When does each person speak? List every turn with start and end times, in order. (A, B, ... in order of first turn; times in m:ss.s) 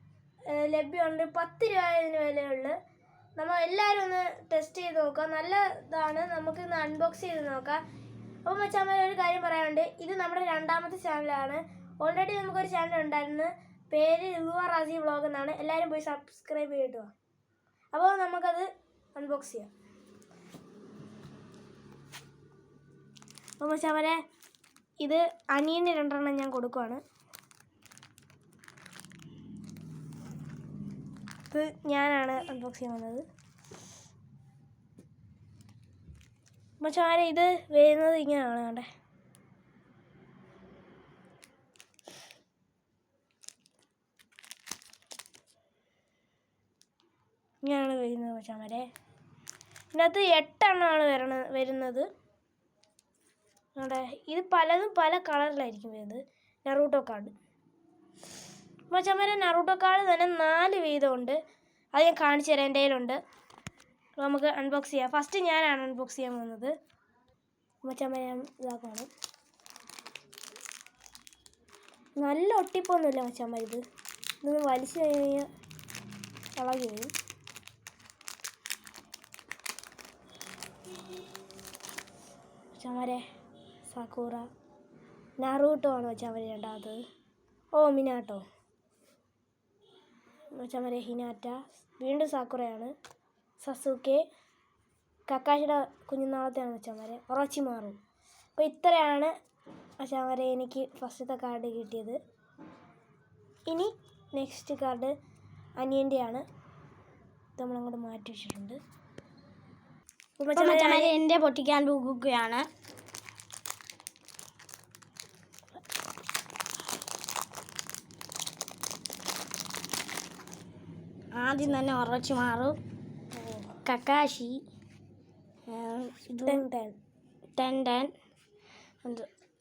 0:00.5-0:02.8 A
0:03.4-0:07.8 A
0:08.4-0:17.1 A
0:17.9-0:19.7 A
0:23.6-0:24.2 A
0:25.0-0:27.0 A
0:31.5-0:33.2 A
0:36.8-0:38.9 A
0:47.6-0:48.9 A
0:49.9-0:52.1 A
0:53.8-0:57.3 A
0:58.9-1:01.4 A
1:01.9-1:03.2 A
1:04.2-1:06.7 A
1:07.8-1:09.1 A
1:12.2-1:13.8 A
1:14.4-1:15.5 A
1:16.6-1:17.1 A
1:22.7-1:23.2 A
1:23.9-1:24.5 A
1:25.4-1:27.0 A
1:27.7-1:28.4 A
1:30.6-1:32.9 A
1:33.6-1:34.2 A
1:35.3-1:38.0 A
1:38.6-1:39.3 A
1:40.0-1:42.2 A
1:43.7-1:45.1 A
1:45.8-1:46.4 A
1:47.6-1:48.8 A
1:50.4-1:51.1 A
1:50.5-1:52.7 B
2:01.3-2:02.8 B
2:03.3-2:03.8 A
2:03.8-2:04.6 B
2:05.7-2:06.6 B
2:06.4-2:07.0 A
2:07.6-2:08.1 B